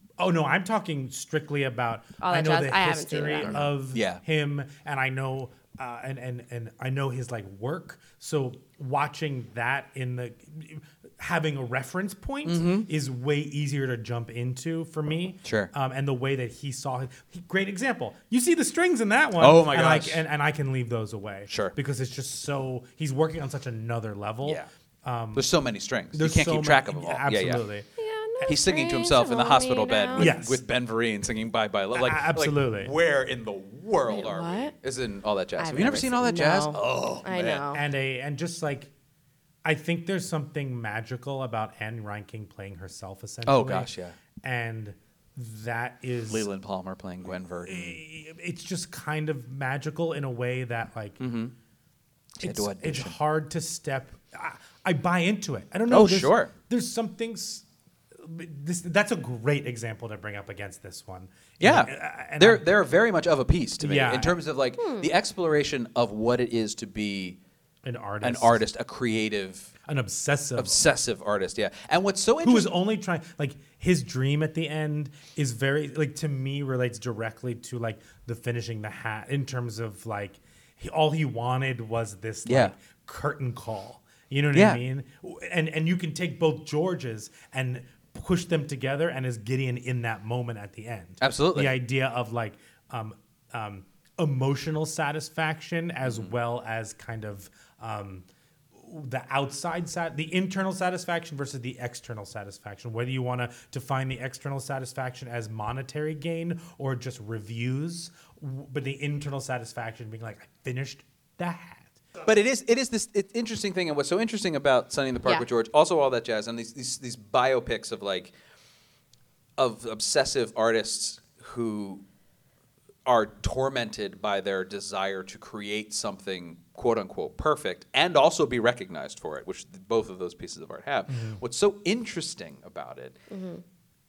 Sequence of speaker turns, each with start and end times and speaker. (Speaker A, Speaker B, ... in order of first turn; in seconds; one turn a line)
Speaker A: 0.2-25.5
Speaker B: 2.2-3.6
Speaker C: 3.5-4.2
Speaker C: 12.4-12.9
Speaker C: 15.4-15.7
Speaker C: 19.4-20.2
Speaker C: 21.5-21.7
Speaker C: 25.3-27.6
Speaker A: 26.1-27.9
Speaker B: 28.0-30.3
Speaker C: 28.4-37.6
Speaker A: 30.1-30.6
Speaker A: 31.9-32.9
Speaker B: 34.1-34.7
Speaker B: 35.6-37.8
Speaker A: 37.7-38.9
Speaker A: 39.6-43.9
Speaker C: 43.5-44.2
Speaker A: 44.4-46.5
Speaker C: 46.3-48.0
Speaker A: 47.6-51.2
Speaker C: 51.2-51.5
Speaker C: 52.4-53.1
Speaker A: 52.4-57.6
Speaker C: 55.9-56.5
Speaker A: 58.2-62.6
Speaker C: 61.6-67.4
Speaker A: 63.8-64.4
Speaker B: 64.8-65.1
Speaker A: 67.8-68.6
Speaker C: 68.2-69.8
Speaker A: 69.8-70.8
Speaker C: 70.6-72.7
Speaker A: 72.4-112.0
Speaker C: 82.5-82.7
Speaker C: 84.5-84.8
Speaker C: 91.2-91.7
Speaker C: 96.0-96.3
Speaker C: 112.2-118.3
Speaker C: 119.6-122.0
Speaker C: 123.0-133.2
Speaker A: 131.1-131.4
Speaker B: 133.3-133.6